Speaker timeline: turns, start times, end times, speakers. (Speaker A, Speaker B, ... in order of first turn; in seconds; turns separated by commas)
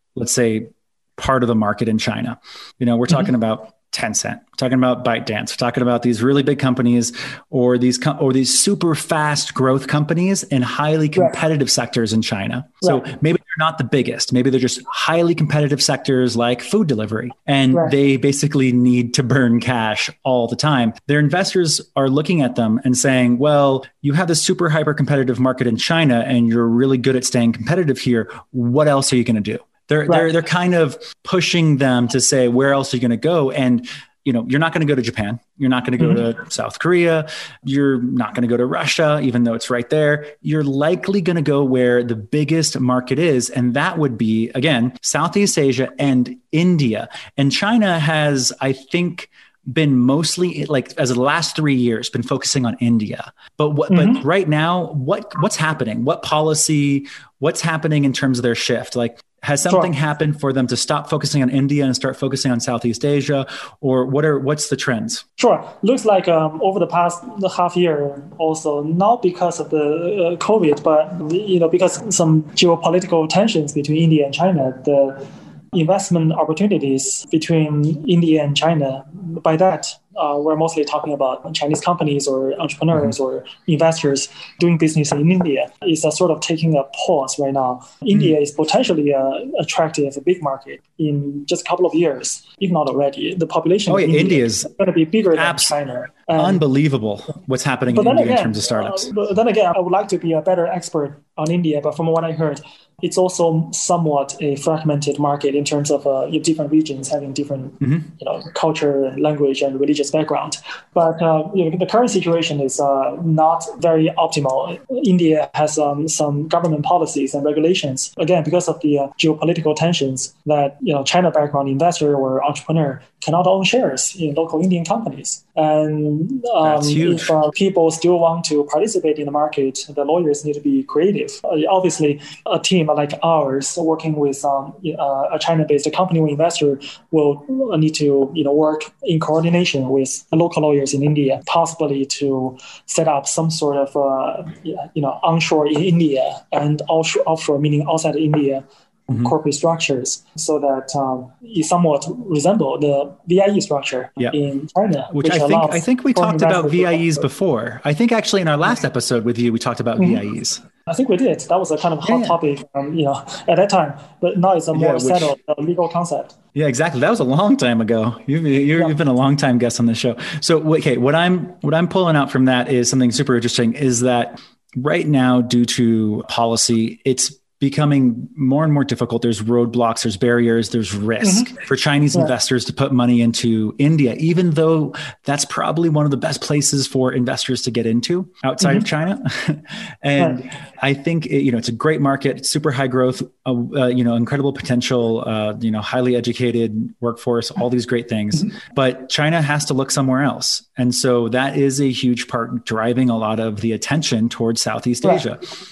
Speaker A: 0.1-65.2, Speaker B: 53.9-54.2, Speaker B: 59.6-59.9, Speaker B: 65.4-96.6, Speaker A: 93.9-94.7, Speaker A: 95.3-95.7, Speaker A: 96.4-99.1, Speaker B: 97.9-157.3, Speaker A: 107.8-108.1, Speaker A: 126.6-127.3, Speaker A: 155.1-160.6, Speaker B: 160.9-166.3, Speaker A: 162.0-162.4, Speaker A: 164.7-165.3, Speaker A: 166.5-205.4, Speaker B: 181.2-181.5, Speaker B: 188.6-188.9